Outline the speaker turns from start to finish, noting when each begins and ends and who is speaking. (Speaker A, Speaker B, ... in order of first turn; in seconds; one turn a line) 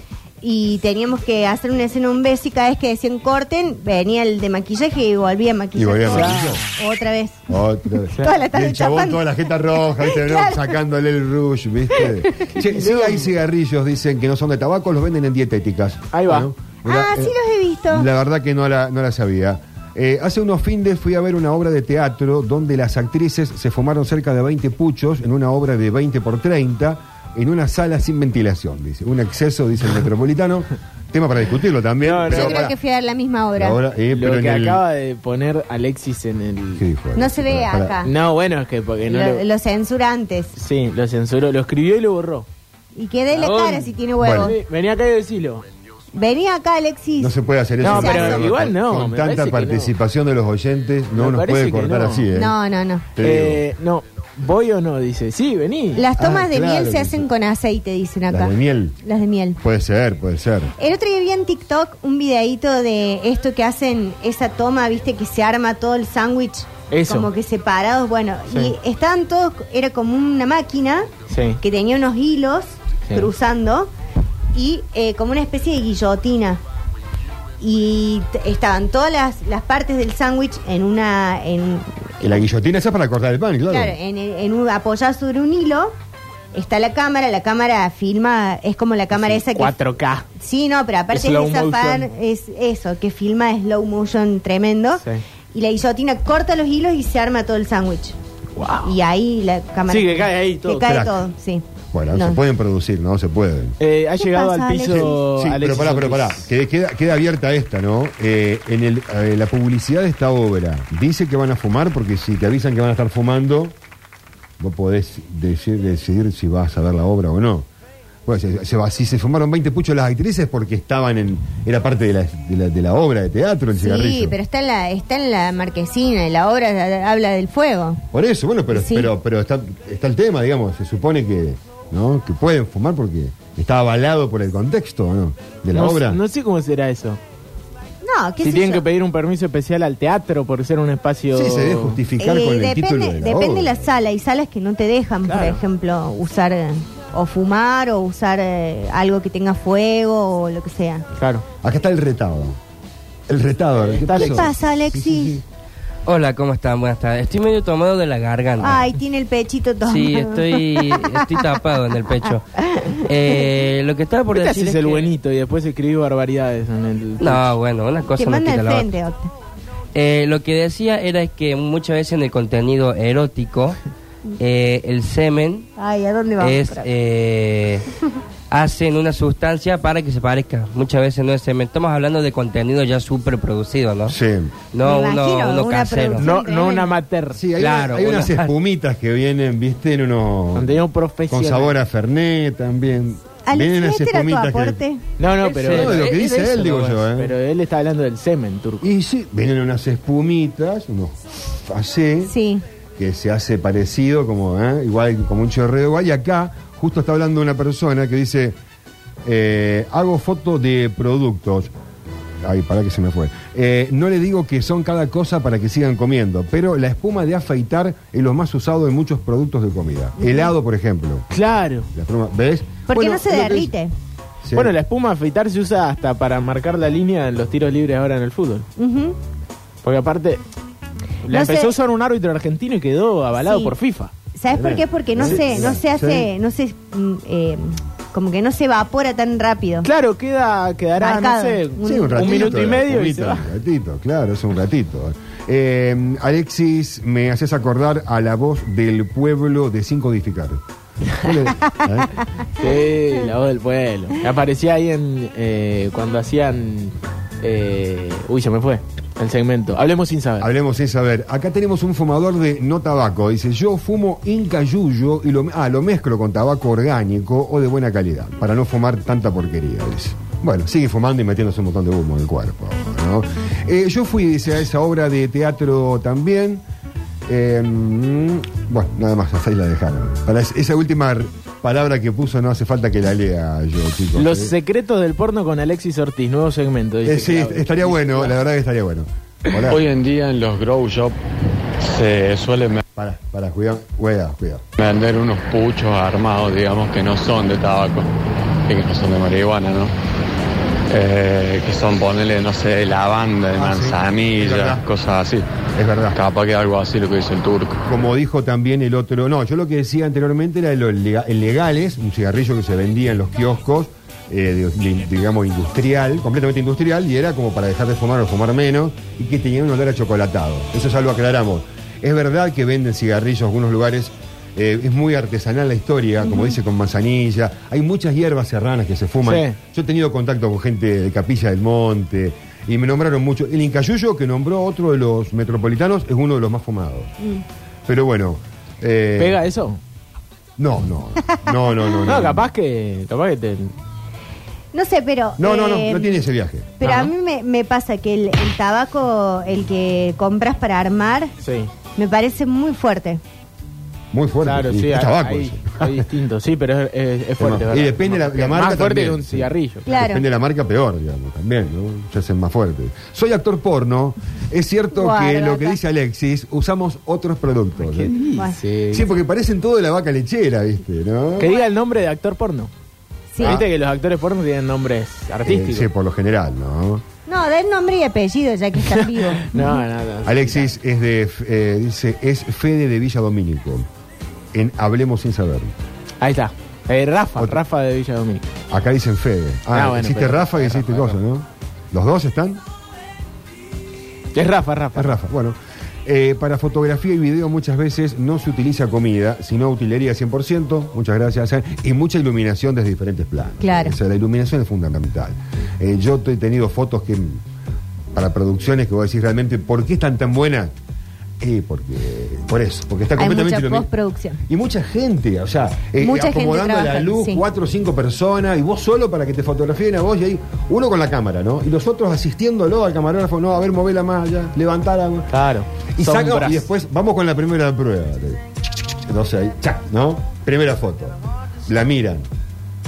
Speaker A: 0.4-9.2
Speaker B: 5.8-6.6
Speaker C: 6.1-6.7
Speaker B: 7.5-17.3
Speaker A: 9.8-10.7
Speaker A: 12.0-12.5
Speaker C: 12.6-13.3
Speaker C: 16.1-16.5
Speaker A: 16.8-18.1
Speaker B: 17.9-32.7
Speaker C: 32.0-32.7
Speaker A: 32.3-33.8
Speaker B: 33.6-34.8
Speaker C: 34.1-36.8
Speaker B: 36.8-38.0
Speaker A: 37.1-38.1
Speaker C: 38.0-39.4
Speaker A: 39.1-40.5
Speaker C: 40.5-42.5
Speaker A: 43.0-44.6
Speaker C: 43.3-45.6
Speaker B: 44.2-44.5
Speaker A: 46.1-48.5
Speaker B: 47.2-52.5
Speaker C: 47.8-49.9
Speaker C: 51.1-52.3
Speaker A: 52.3-53.0
Speaker B: 53.1-53.6
Speaker C: 53.2-56.0
Speaker A: 55.9-59.6
Speaker B: 56.2-57.3
Speaker B: 58.3-59.0
Speaker B: 59.6-60.7
Speaker A: 60.8-73.9
Speaker C: 66.9-67.3
Speaker C: 71.3-71.6
Speaker A: 74.5-76.6
Speaker A: 77.6-82.4
Speaker B: 82.2-84.0
Speaker A: 83.7-85.9
Speaker A: 86.5-89.7
Speaker C: 89.1-90.3
Speaker A: 90.3-98.2
Speaker C: 91.1-92.1
Speaker C: 98.5-98.9
Speaker A: 98.8-102.4
Speaker C: 99.9-101.1
Speaker B: 100.8-101.2
Speaker B: 101.9-103.8
Speaker C: 103.8-106.4
Speaker A: 104.2-105.2
Speaker B: 104.9-113.8
Speaker B: 114.6-117.7
Speaker B: 118.2-124.4
Speaker A: 123.8-128.0
Speaker B: 128.1-136.2
Speaker A: 128.7-129.1
Speaker C: 135.7-137.2
Speaker A: 138.0-138.8
Speaker C: 138.4-142.0
Speaker B: 141.3-143.8
Speaker A: 142.2-151.0
Speaker C: 145.3-145.6
Speaker C: 151.2-151.4
Speaker B: 151.6-152.6
Speaker B: 153.3-155.4
Speaker C: 153.8-154.5
Speaker A: 154.1-155.4
Speaker D: 156.1-158.8
Speaker A: 158.6-161.4
Speaker D: 159.9-162.4
Speaker A: 162.6-163.4
Speaker D: 163.1-165.1
Speaker C: 164.3-167.4
Speaker D: 167.2-168.9
Speaker A: 168.1-169.3
Speaker D: 169.9-173.8
Speaker D: 174.4-175.7
Speaker A: 175.8-176.9
Speaker D: 176.4-177.8
Speaker D: 178.5-184.1
Speaker B: 184.1-184.5
Speaker D: 184.7-186.3
Speaker A: 184.8-186.9
Speaker C: 186.2-187.5
Speaker B: 187.3-194.8
Speaker D: 187.6-188.5
Speaker C: 190.6-191.7
Speaker A: 193.4-195.0
Speaker C: 195.2-198.9
Speaker D: 195.4-196.3
Speaker B: 195.6-197.3
Speaker B: 198.8-202.3
Speaker A: 202.2-202.6
Speaker B: 203.0-208.6
Speaker B: 209.2-211.7
Speaker B: 212.4-221.3
Speaker A: 220.2-220.5
Speaker C: 221.3-221.9
Speaker B: 221.9-223.7
Speaker A: 222.9-223.9
Speaker B: 224.4-224.7
Speaker C: 224.5-228.7
Speaker A: 228.8-229.2
Speaker C: 229.8-230.4
Speaker C: 231.3-234.1
Speaker A: 231.3-231.7
Speaker A: 233.4-233.7
Speaker A: 234.3-239.9
Speaker B: 234.5-236.3
Speaker C: 239.8-243.5
Speaker A: 241.0-242.6
Speaker B: 241.8-252.2
Speaker C: 252.6-260.5
Speaker B: 260.4-276.6
Speaker B: 277.3-284.5
Speaker C: 284.1-288.4
Speaker B: 287.1-289.8
Speaker E: 289.7-291.2
Speaker E: 291.8-292.8
Speaker B: 292.9-294.6
Speaker E: 294.8-298.1
Speaker E: 298.6-299.9
Speaker E: 300.9-305.5
Speaker B: 303.5-304.9
Speaker B: 305.7-306.2
Speaker E: 306.1-307.8
Speaker B: 307.9-337.1
Speaker A: 326.3-326.5
Speaker C: 329.2-329.6
Speaker B: 337.9-339.4
Speaker C: 339.2-339.8
Speaker B: 340.6-342.5
Speaker C: 342.1-343.7
Speaker A: 344.7-346.2
Speaker B: 345.4-346.7
Speaker A: 346.8-351.3
Speaker C: 346.8-347.1
Speaker C: 351.4-351.7
Speaker A: 351.9-353.2
Speaker B: 354.1-356.1
Speaker C: 354.4-359.9
Speaker B: 357.4-368.1
Speaker A: 359.9-360.2
Speaker A: 364.9-365.8
Speaker C: 367.8-369.1
Speaker B: 368.9-371.5
Speaker C: 371.4-372.7
Speaker A: 373.3-373.6
Speaker B: 373.4-373.7
Speaker C: 373.4-375.9
Speaker B: 375.4-377.0
Speaker A: 377.3-379.7
Speaker C: 379.4-380.7
Speaker B: 380.2-383.9
Speaker B: 384.5-385.7
Speaker C: 386.2-388.5
Speaker B: 388.7-392.6
Speaker C: 389.7-391.1
Speaker C: 394.3-395.1
Speaker B: 394.9-407.4
Speaker A: 403.6-404.0
Speaker B: 408.1-410.7
Speaker B: 411.4-413.9
Speaker A: 413.2-414.4
Speaker B: 414.5-425.4
Speaker A: 416.0-417.4
Speaker C: 425.3-426.6
Speaker B: 425.9-432.3